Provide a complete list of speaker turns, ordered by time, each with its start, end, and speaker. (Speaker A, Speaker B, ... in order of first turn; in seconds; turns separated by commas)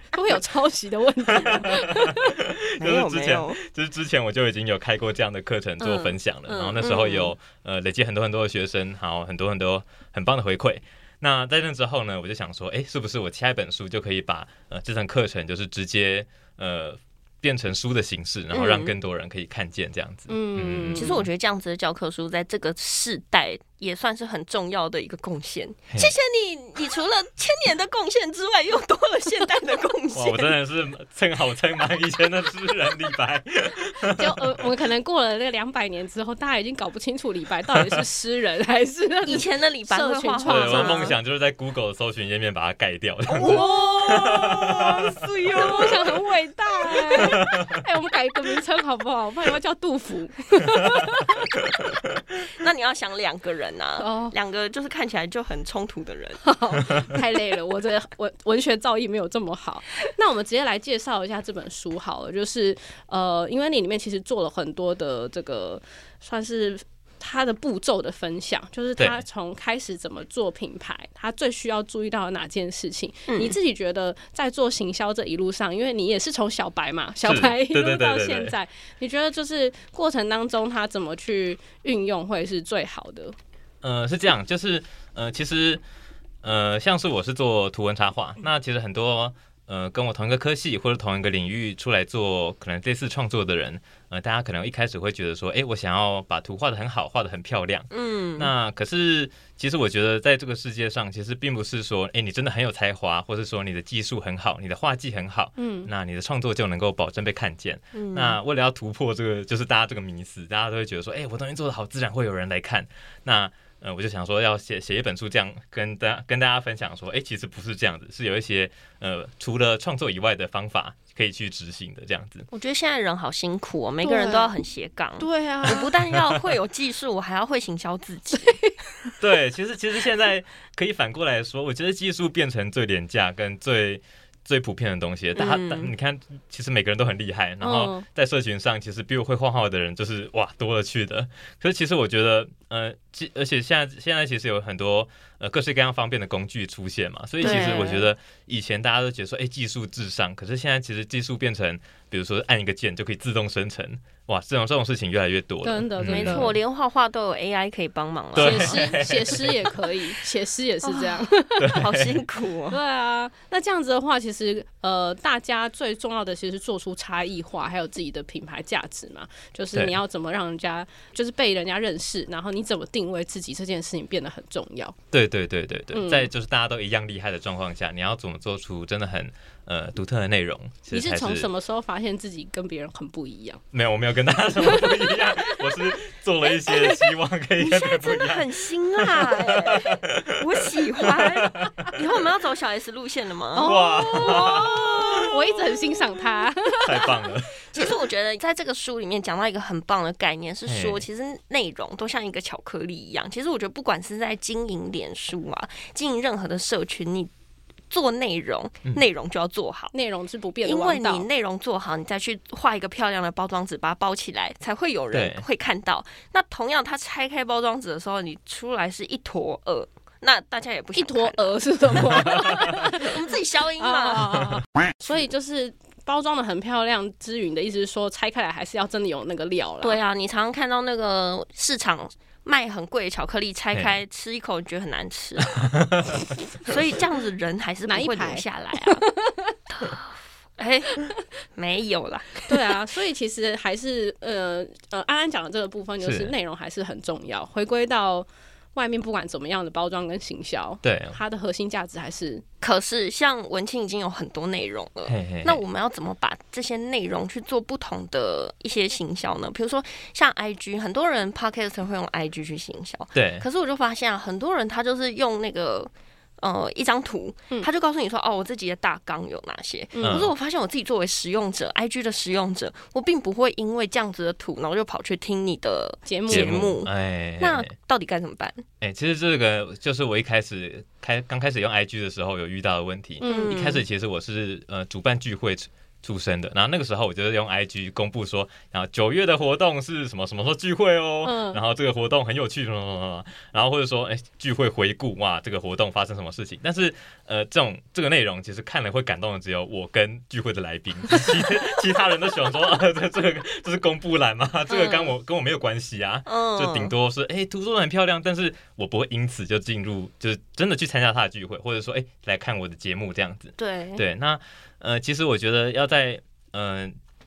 Speaker A: 0.1-2.3, Speaker B: 1.3-21.3, Speaker C: 2.8-3.6, Speaker C: 5.8-7.3, Speaker C: 18.5-18.9, Speaker A: 20.3-21.2, Speaker C: 20.9-30.5, Speaker B: 30.1-34.5, Speaker A: 34.0-41.1, Speaker C: 39.2-41.1, Speaker B: 40.5-45.8, Speaker C: 43.3-46.1, Speaker A: 43.4-44.8, Speaker A: 45.5-51.4, Speaker B: 47.2-47.7, Speaker C: 52.5-56.4, Speaker A: 54.0-54.3, Speaker A: 56.4-83.3, Speaker C: 73.3-73.5, Speaker B: 77.2-78.5, Speaker B: 83.8-85.8, Speaker B: 86.4-122.5, Speaker C: 97.9-98.5, Speaker A: 105.6-105.9, Speaker C: 107.9-108.4, Speaker C: 122.5-128.6, Speaker A: 124.0-124.5, Speaker A: 125.2-125.9, Speaker B: 129.2-156.5, Speaker C: 135.3-135.9, Speaker A: 137.6-138.0, Speaker C: 147.4-148.0, Speaker A: 147.4-148.0, Speaker A: 155.6-156.5, Speaker C: 156.0-158.9, Speaker B: 158.3-159.7, Speaker A: 158.4-161.6, Speaker C: 160.8-162.8, Speaker B: 161.6-162.2, Speaker A: 162.7-174.9, Speaker B: 175.1-181.5, Speaker A: 175.9-176.3, Speaker A: 180.9-183.6, Speaker B: 183.7-191.9, Speaker A: 184.8-185.1, Speaker C: 187.6-195.3, Speaker A: 193.5-197.1, Speaker B: 193.6-195.2, Speaker B: 196.8-197.9, Speaker C: 197.7-207.3, Speaker B: 200.7-201.0, Speaker C: 207.9-209.9, Speaker A: 209.9-211.2, Speaker C: 210.6-224.4, Speaker B: 215.1-215.4, Speaker A: 220.9-223.2, Speaker A: 223.8-230.0, Speaker C: 229.8-235.8, Speaker B: 235.8-236.7, Speaker C: 236.6-239.1, Speaker A: 237.9-239.5, Speaker C: 239.7-242.5, Speaker A: 242.5-252.4, Speaker B: 246.0-246.3, Speaker B: 250.8-251.2, Speaker C: 252.6-278.6, Speaker B: 255.1-255.6, Speaker B: 263.1-263.4, Speaker A: 269.9-270.3, Speaker B: 270.0-270.3, Speaker A: 276.1-276.6, Speaker B: 276.3-277.7, Speaker B: 278.8-316.9, Speaker A: 283.2-283.6, Speaker C: 283.2-283.8, Speaker A: 291.2-291.6, Speaker C: 304.7-305.1, Speaker C: 306.3-306.9, Speaker C: 313.6-314.0